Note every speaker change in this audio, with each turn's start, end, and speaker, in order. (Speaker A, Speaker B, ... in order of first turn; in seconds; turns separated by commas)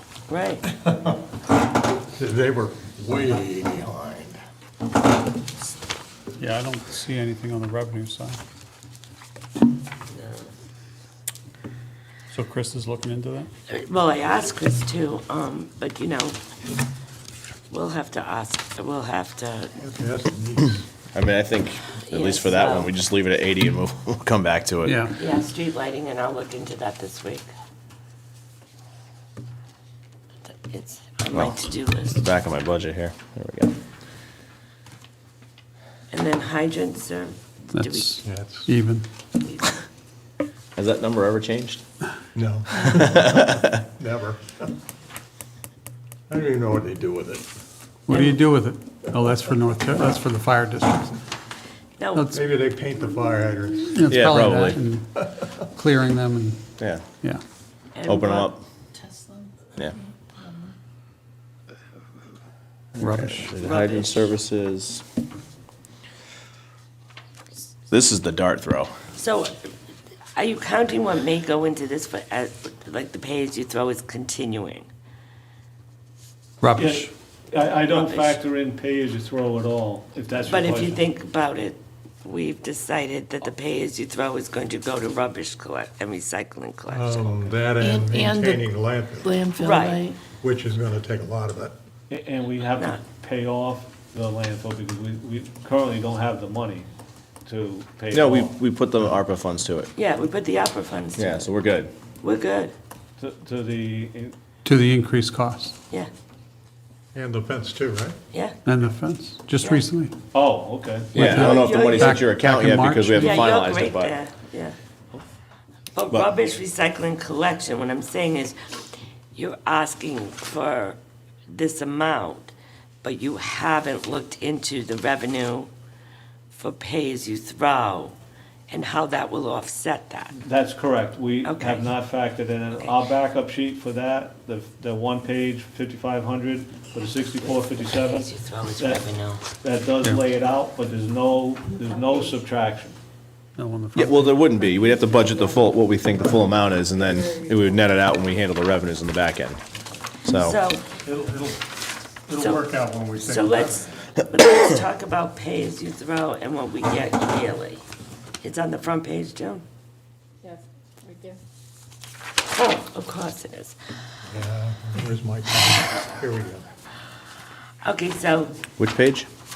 Speaker A: 0.3-0.6, Speaker B: 0.7-1.2, Speaker B: 2.0-4.4, Speaker C: 6.4-8.4, Speaker A: 10.1-10.5, Speaker C: 12.3-13.5, Speaker A: 13.7-16.4, Speaker A: 17.7-19.8, Speaker B: 19.8-20.9, Speaker D: 21.1-25.1, Speaker A: 22.1-22.9, Speaker C: 24.9-25.1, Speaker A: 25.1-27.5, Speaker A: 30.5-32.2, Speaker D: 31.3-33.8, Speaker A: 36.1-38.2, Speaker C: 37.7-39.1, Speaker B: 38.2-38.7, Speaker A: 39.4-39.7, Speaker D: 40.8-41.8, Speaker B: 42.3-44.7, Speaker D: 42.8-43.7, Speaker B: 46.3-47.5, Speaker C: 48.1-51.2, Speaker A: 48.1-48.4, Speaker A: 52.0-52.3, Speaker C: 52.1-52.4, Speaker B: 52.3-54.0, Speaker C: 53.9-57.4, Speaker D: 54.1-54.8, Speaker D: 56.8-57.0, Speaker A: 58.0-58.5, Speaker D: 58.0-58.6, Speaker E: 59.0-59.5, Speaker D: 63.0-65.0, Speaker C: 63.0-63.5, Speaker A: 63.6-64.3, Speaker D: 67.9-68.9, Speaker A: 69.1-69.6, Speaker A: 70.3-74.9, Speaker C: 76.6-77.1, Speaker F: 76.8-81.0, Speaker A: 77.9-78.4, Speaker A: 80.5-87.5, Speaker B: 86.9-89.4, Speaker E: 87.8-88.7, Speaker E: 89.2-90.2, Speaker A: 89.6-90.0, Speaker B: 90.4-91.7, Speaker F: 92.1-96.9, Speaker A: 92.7-93.0, Speaker F: 97.5-98.5, Speaker D: 98.1-99.9, Speaker A: 100.0-101.5, Speaker D: 101.2-101.9, Speaker A: 102.2-102.7, Speaker F: 103.2-104.3, Speaker C: 104.7-105.8, Speaker B: 107.2-108.2, Speaker A: 108.3-108.6, Speaker C: 108.7-110.1, Speaker F: 110.3-111.4, Speaker C: 111.1-113.5, Speaker D: 111.1-114.2, Speaker A: 111.2-112.3, Speaker A: 113.2-114.8, Speaker A: 115.9-118.8, Speaker A: 119.3-121.0, Speaker A: 121.5-122.5, Speaker A: 123.0-125.7, Speaker A: 126.5-128.2, Speaker A: 128.7-130.4, Speaker F: 130.3-143.0, Speaker A: 131.4-131.9, Speaker A: 137.4-139.5, Speaker C: 143.6-144.5, Speaker D: 143.9-149.6, Speaker D: 150.2-150.6, Speaker A: 150.4-150.9, Speaker B: 151.0-151.7, Speaker B: 152.3-153.9, Speaker A: 152.4-157.8, Speaker A: 158.4-159.6, Speaker A: 162.5-163.8, Speaker B: 164.2-166.7, Speaker A: 167.8-168.6, Speaker D: 168.8-169.3